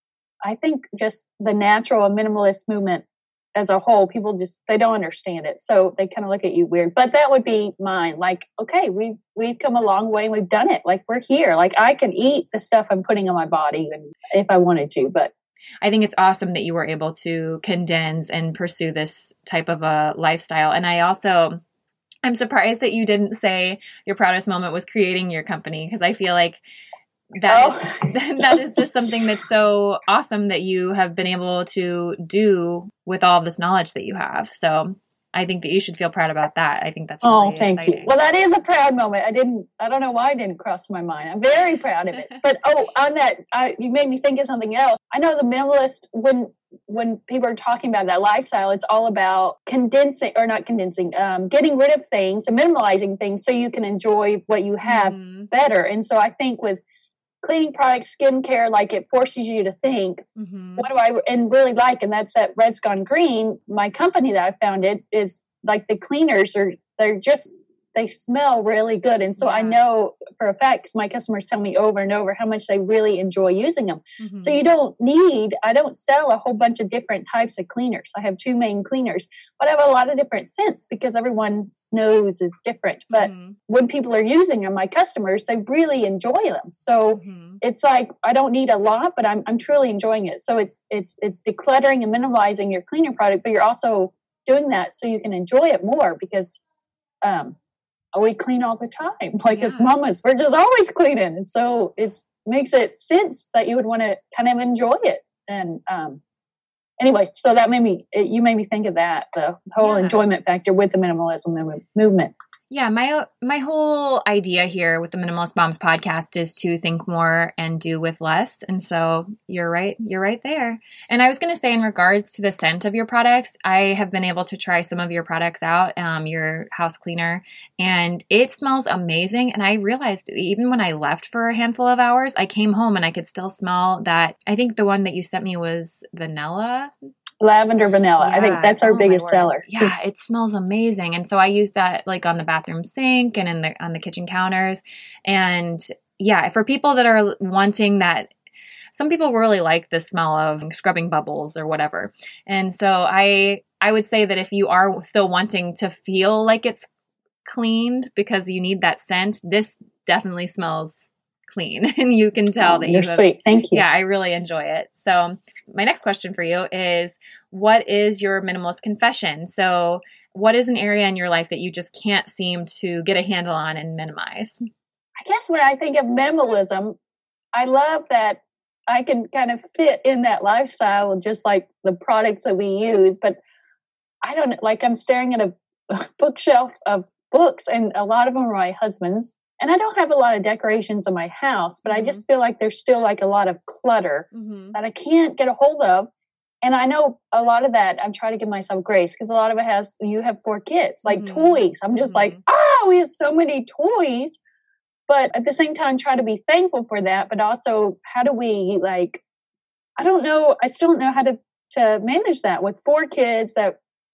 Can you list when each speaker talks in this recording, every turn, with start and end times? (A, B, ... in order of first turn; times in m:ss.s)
0:00.4-0:15.3 A
0:15.8-0:21.6 B
0:22.2-0:26.6 B
0:27.3-0:38.1 B
0:27.5-0:29.2 A
0:37.2-0:56.8 A
0:54.8-0:55.5 B
0:57.4-1:00.2 A
1:00.4-1:00.8 B
1:00.8-1:36.6 A
1:09.4-1:09.8 B
1:14.2-1:14.6 B
1:23.1-1:23.6 B
1:27.1-1:27.6 B
1:37.2-1:37.6 A
1:38.1-1:46.2 A
1:39.5-1:39.9 B
1:47.0-1:52.3 A
1:49.8-1:50.2 B
1:52.7-2:16.9 B
2:17.4-2:19.9 A
2:18.2-2:28.3 B
2:28.9-2:36.9 B
2:37.4-2:54.6 B
2:42.6-2:43.8 A
2:55.2-2:57.0 A
2:57.5-3:03.4 A
3:04.2-3:16.1 A
3:11.8-3:12.2 B
3:14.3-3:14.8 B
3:16.6-3:24.4 A
3:21.1-3:22.4 B
3:25.1-3:29.2 A
3:30.0-3:33.8 A